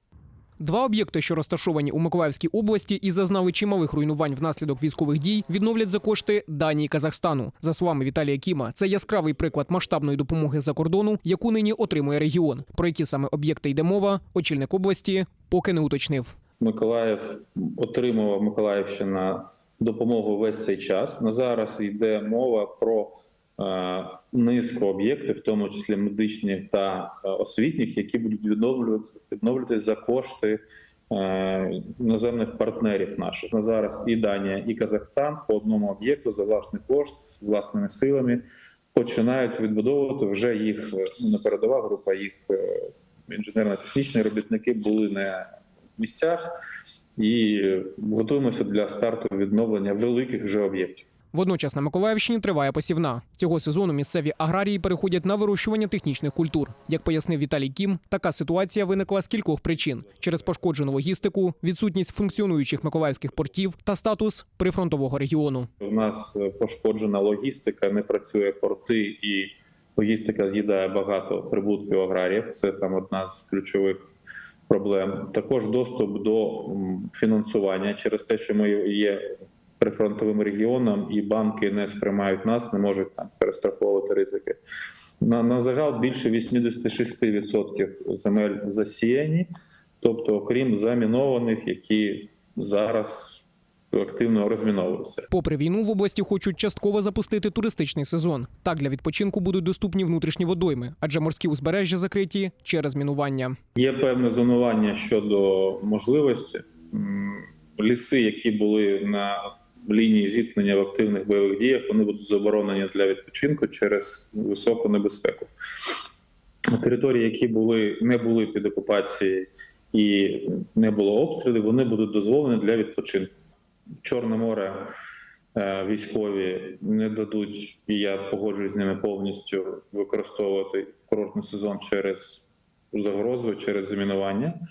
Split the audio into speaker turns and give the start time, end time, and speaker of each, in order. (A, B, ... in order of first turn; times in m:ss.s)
0:00.6-0:16.3 A
0:16.6-0:45.5 B
0:46.0-0:46.5 B
0:47.2-0:51.1 B
0:51.3-1:05.7 A
1:05.8-1:14.1 B
1:14.7-1:19.2 B
1:19.8-1:24.6 B
1:25.2-1:29.5 B
1:30.0-1:35.3 B
1:35.3-1:43.6 A
1:43.8-1:55.9 B
1:56.8-2:03.3 B
2:04.0-2:04.9 B
2:05.5-2:14.6 B